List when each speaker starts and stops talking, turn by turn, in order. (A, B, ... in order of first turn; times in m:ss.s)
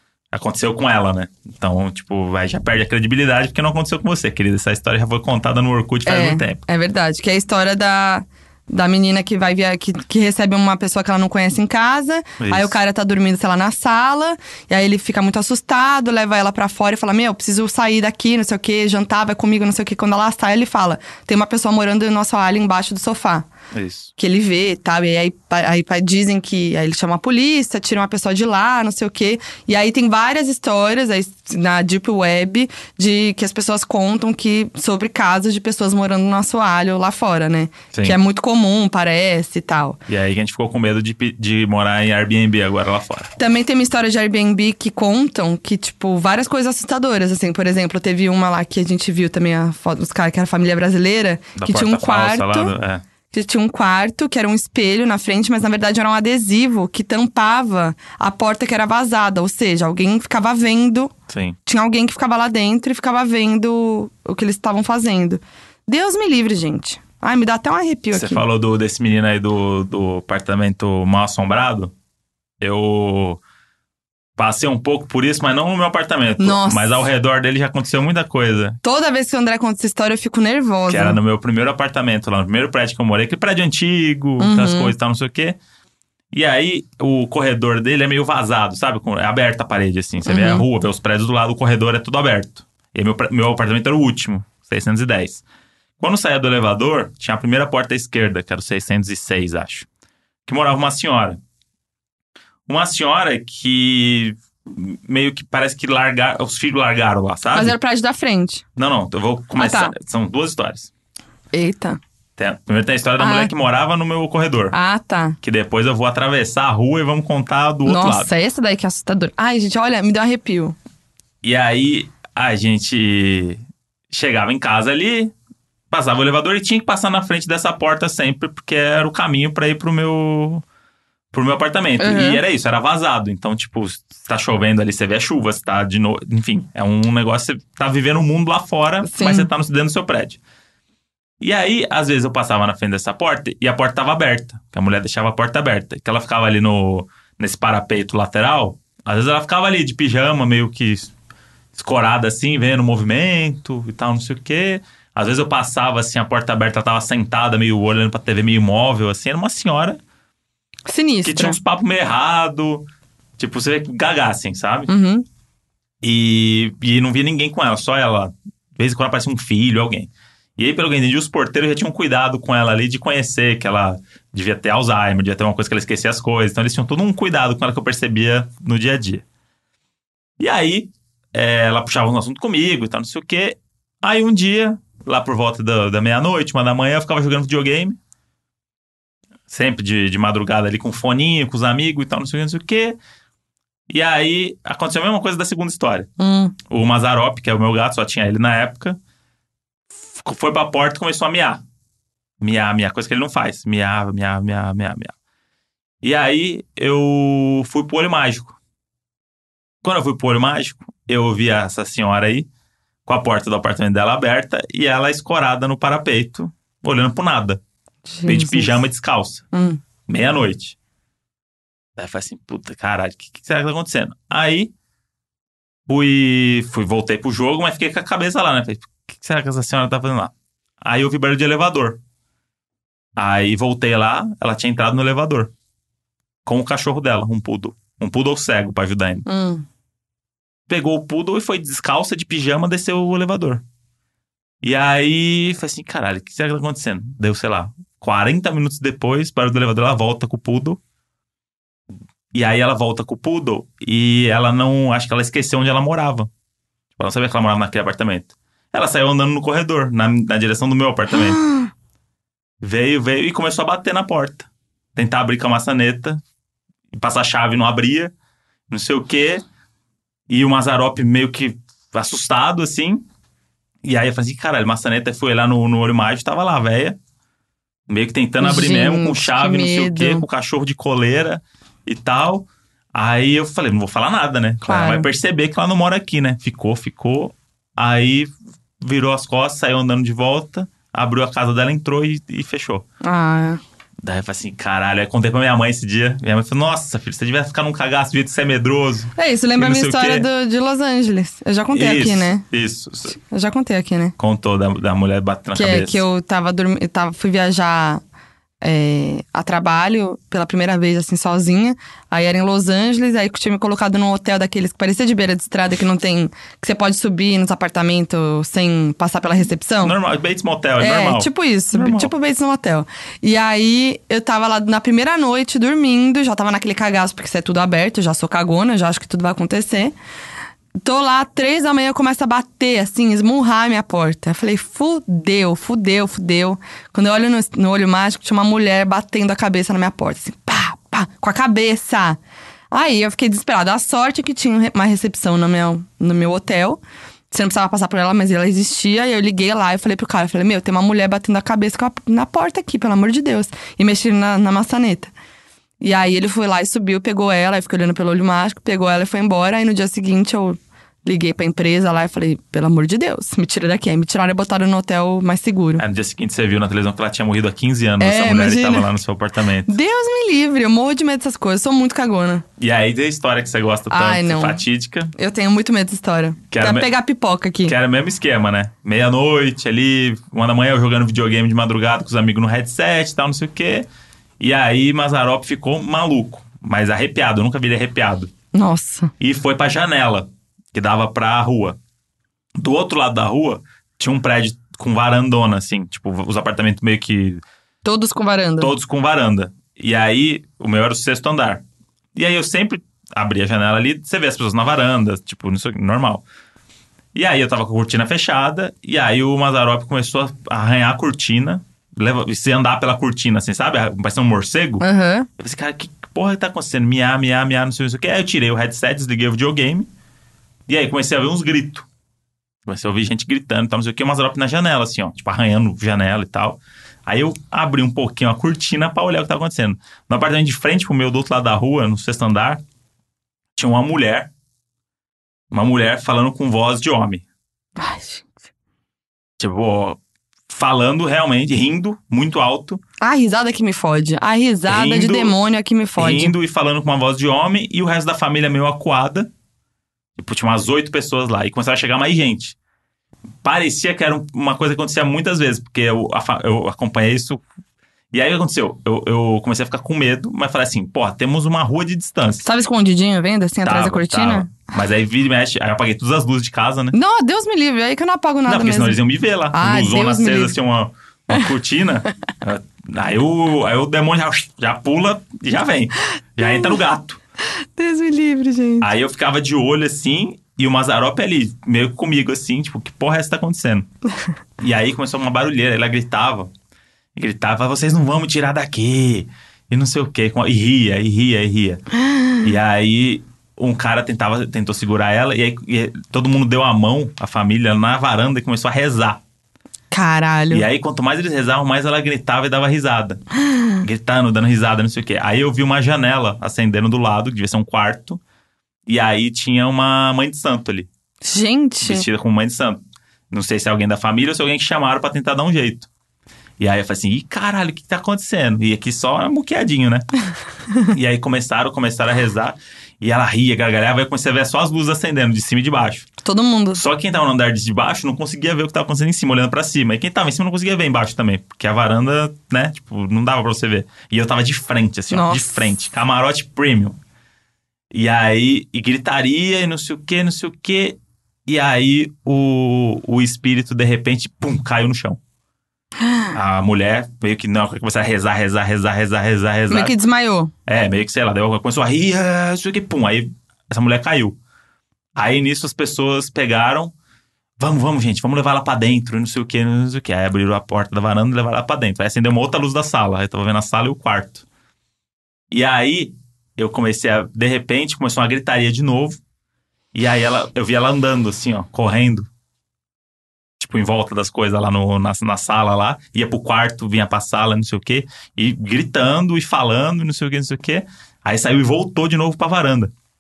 0:00.3-0:06.6 A
0:06.1-0:23.5 B
0:12.4-0:12.8 A
0:23.7-0:24.1 A
0:24.2-0:40.0 B
0:37.9-0:38.2 A
0:40.1-0:43.3 A
0:43.4-0:52.7 B
0:51.6-0:53.0 A
0:53.3-1:01.1 B
1:01.3-1:01.6 A
1:01.7-1:08.4 B
1:08.1-1:11.9 A
1:12.6-1:13.4 A
1:14.4-1:18.8 A
1:16.4-1:17.1 B
1:18.8-1:21.2 B
1:20.9-1:25.6 A
1:24.4-1:25.0 B
1:26.3-1:35.4 A
1:30.3-1:30.7 B
1:36.0-1:39.9 A
1:40.5-1:41.4 A
1:42.7-1:47.8 A
1:47.5-1:48.6 B
1:48.8-1:50.9 A
1:49.6-1:49.9 B
1:51.5-1:52.0 B
1:52.4-1:54.8 A
1:53.2-1:53.5 B
1:54.7-1:55.4 B
1:55.4-1:58.3 A
1:57.8-2:00.8 B
2:01.4-2:05.3 A
2:05.9-2:10.6 A
2:11.3-2:20.4 A
2:12.0-2:12.4 B
2:19.0-2:19.5 B
2:21.4-2:31.1 A
2:31.8-2:40.0 A
2:40.9-2:41.6 B
2:41.2-2:42.9 A
2:43.4-2:44.9 A
2:44.9-2:45.3 B
2:46.0-2:59.2 A
3:00.4-3:08.0 A
3:09.5-3:13.0 A
3:13.9-3:16.1 A
3:16.2-3:16.6 B
3:16.7-3:19.0 A
3:20.1-3:21.6 A
3:22.4-3:25.2 A
3:26.0-3:28.6 A
3:29.8-3:32.5 A
3:33.1-3:37.6 A
3:38.1-3:38.8 B
3:38.2-3:39.5 A
3:39.5-3:39.8 B
3:40.1-3:40.8 A
3:42.0-3:44.7 A
3:45.9-3:52.0 A
3:53.2-3:55.5 A
3:56.5-3:59.3 A
3:59.3-3:59.7 B
4:00.7-4:03.6 A
4:04.6-4:10.8 A
4:12.3-4:16.3 A
4:17.0-4:21.4 A
4:22.6-4:26.2 A
4:26.9-4:28.1 A
4:28.7-4:29.4 A
4:30.3-4:33.0 A
4:33.8-4:37.0 A
4:37.9-4:52.9 A
4:38.4-4:40.2 B
4:44.6-4:45.1 B
4:53.0-4:53.6 B
4:54.0-5:00.3 A
4:59.2-5:02.4 B
5:01.7-5:03.2 A
5:03.1-5:04.2 B
5:04.2-5:06.0 A
5:05.6-5:08.0 B
5:08.6-5:20.0 B
5:19.8-5:22.1 A
5:20.8-5:30.0 B
5:30.8-5:42.2 B
5:42.7-5:55.1 B
5:55.8-6:05.8 B
6:05.8-6:09.8 A
6:08.0-6:08.9 B
6:09.7-6:12.4 B
6:12.6-6:15.1 A
6:13.9-6:14.6 B
6:15.2-6:17.8 B
6:16.5-6:16.9 A
6:17.7-6:23.9 A
6:24.4-6:28.3 A
6:28.5-6:29.1 B
6:29.2-6:31.8 A
6:32.6-6:37.4 A
6:37.8-6:38.7 B
6:38.6-6:41.6 A
6:42.2-6:46.2 A
6:47.2-6:54.8 A
6:54.8-6:55.3 B
6:55.4-6:59.9 A
7:00.7-7:01.9 A
7:02.7-7:12.6 A
7:13.6-7:14.3 A
7:15.5-7:17.2 A
7:17.8-7:18.4 B
7:19.4-7:22.8 A
7:23.0-7:26.3 B
7:24.7-7:25.4 A
7:26.0-7:29.3 A
7:30.2-7:32.6 A
7:33.4-7:37.4 A
7:38.1-7:42.5 A
7:42.4-7:44.5 B
7:43.6-7:47.0 A
7:46.9-7:49.0 B
7:48.5-7:57.2 A
7:49.5-7:50.6 B
7:56.4-7:56.8 B
7:57.5-7:58.9 B
7:58.8-8:03.9 A
8:04.6-8:06.5 A
8:07.2-8:11.8 A
8:12.1-8:12.4 B
8:12.4-8:19.2 A
8:19.9-8:20.7 B
8:20.5-8:23.2 A
8:23.8-8:28.2 A
8:28.9-8:30.9 A
8:31.2-8:32.1 B
8:31.8-8:35.9 A
8:36.6-8:40.1 A
8:40.9-8:46.1 A
8:46.2-8:46.8 B
8:46.7-8:57.0 A
8:55.1-8:55.6 B
8:57.9-9:05.2 A
9:06.3-9:10.0 A
9:09.7-9:10.5 B
9:10.7-9:14.4 A
9:15.2-9:16.9 A
9:17.6-9:24.4 A
9:25.5-9:29.2 A
9:29.9-9:32.3 A
9:33.6-9:42.9 A